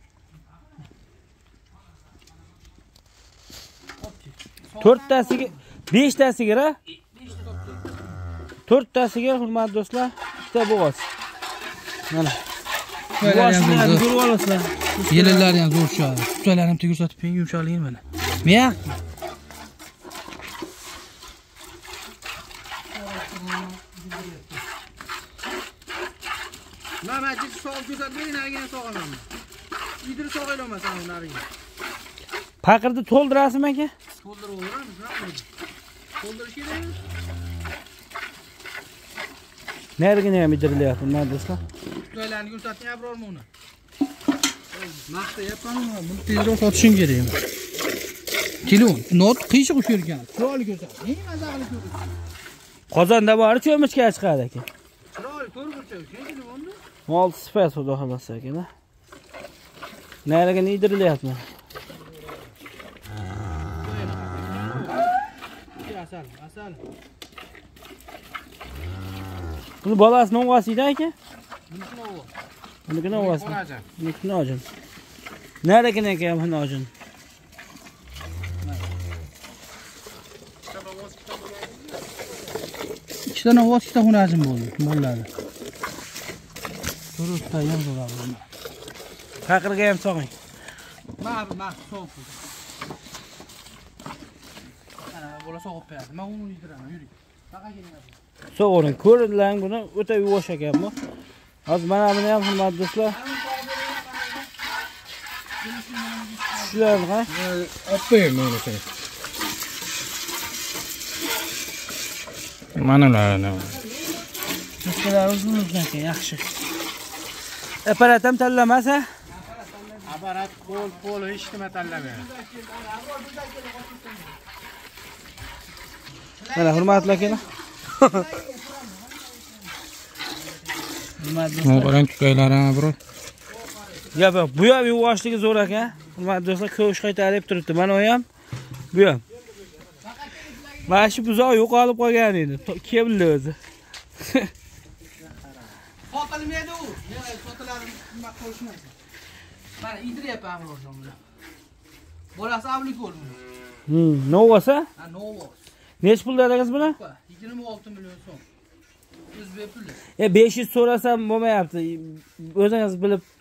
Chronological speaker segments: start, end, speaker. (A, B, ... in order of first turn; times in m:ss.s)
0:04.0-0:05.6 A
0:04.8-0:06.8 B
0:07.2-0:08.0 A
0:08.6-0:11.1 B
0:12.1-0:12.4 B
0:13.2-0:14.1 A
0:13.2-0:15.6 B
0:15.1-0:19.0 A
0:22.9-0:24.6 A
0:27.0-0:29.3 A
0:30.0-0:31.5 A
0:32.6-0:33.9 B
0:34.1-0:35.5 A
0:36.2-0:37.0 A
0:40.0-0:41.6 B
0:42.1-0:43.5 A
0:44.7-0:47.4 A
0:48.6-0:52.1 A
0:52.9-0:54.7 B
0:55.1-0:56.8 A
0:57.1-0:58.7 B
1:00.2-1:01.4 B
1:03.8-1:05.0 A
1:05.8-1:06.8 A
1:09.8-1:11.1 B
1:11.7-1:12.3 A
1:12.9-1:14.6 B
1:13.1-1:13.8 C
1:15.6-1:16.9 B
1:18.6-1:18.9 A
1:20.7-1:22.0 C
1:23.3-1:25.3 A
1:27.2-1:28.4 A
1:29.4-1:30.3 B
1:31.2-1:32.4 A
1:35.1-1:38.2 A
1:38.5-1:41.0 B
1:41.6-1:43.2 B
1:43.0-1:44.5 A
1:45.6-1:47.0 A
1:46.6-1:47.3 B
1:47.3-1:48.8 C
1:52.7-1:53.7 C
1:53.6-1:54.0 A
1:54.8-1:56.5 B
1:57.8-1:59.1 B
1:59.2-2:04.4 A
2:00.1-2:02.3 C
2:06.4-2:09.7 A
2:06.5-2:07.4 B
2:08.0-2:08.3 B
2:11.2-2:12.0 B
2:11.6-2:13.0 C
2:13.5-2:14.2 A
2:14.1-2:18.2 B
2:18.9-2:19.2 B
2:20.0-2:21.4 A
2:20.9-2:23.6 B
2:24.2-2:24.5 B
2:26.1-2:28.9 A
2:29.8-2:31.2 A
2:32.3-2:33.4 A
2:33.9-2:34.9 B
2:35.0-2:35.6 A
2:36.0-2:37.0 B
2:36.8-2:38.4 A
2:39.3-2:40.0 A
2:40.2-2:43.2 B